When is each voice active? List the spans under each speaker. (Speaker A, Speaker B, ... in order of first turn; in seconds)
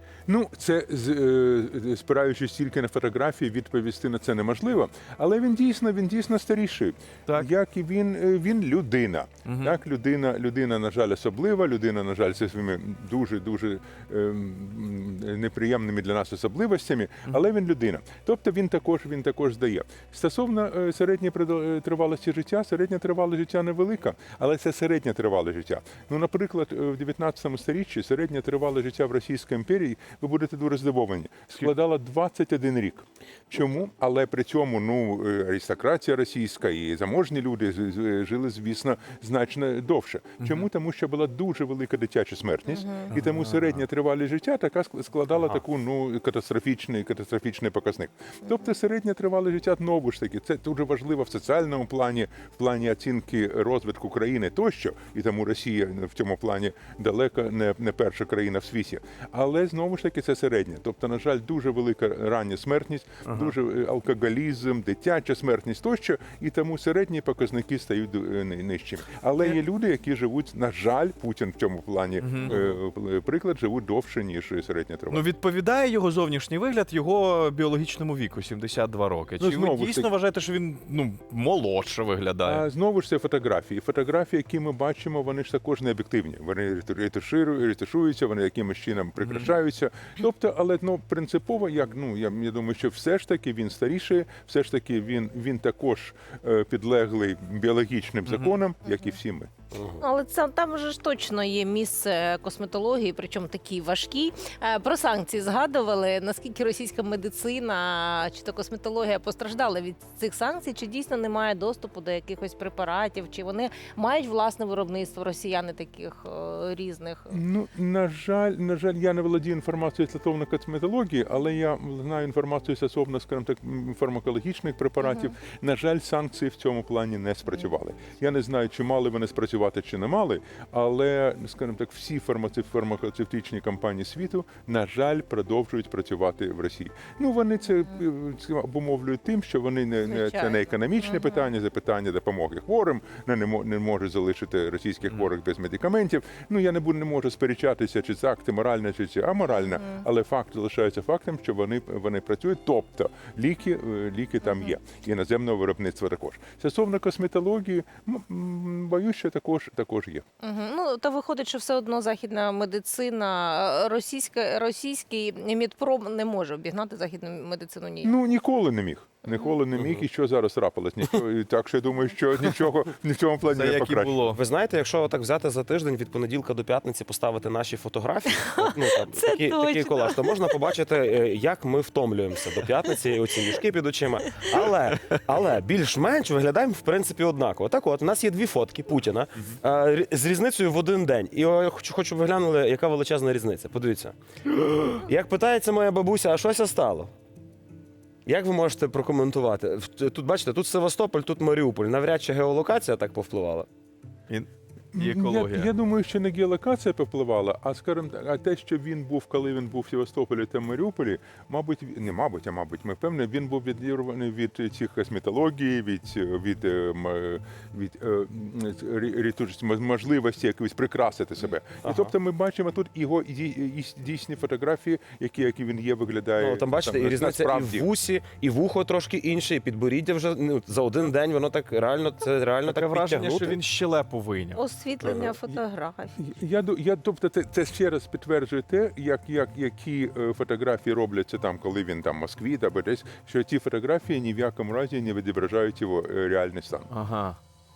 Speaker A: 0.3-75.2, 79.4-80.1, 82.4-99.5, 117.3-160.2, 168.0-174.2, 204.9-227.9, 236.2-246.9
Speaker B: 9.4-9.8, 40.4-40.7, 43.1-43.8, 63.2-63.5, 72.2-72.7, 75.1-82.6, 89.2-89.5, 98.3-98.6, 173.5-174.4, 204.3-205.7, 232.7-234.6, 246.9-247.4
Speaker C: 42.7-43.1, 100.0-117.4, 125.0-125.3, 140.1-141.5, 149.6-150.0, 154.4-154.7, 160.4-168.1, 178.4-180.5, 234.6-236.2
Speaker D: 45.3-45.6, 99.7-100.0, 169.8-170.0, 174.3-197.1, 198.2-203.7, 221.8-222.1, 226.4-233.6, 235.0-235.3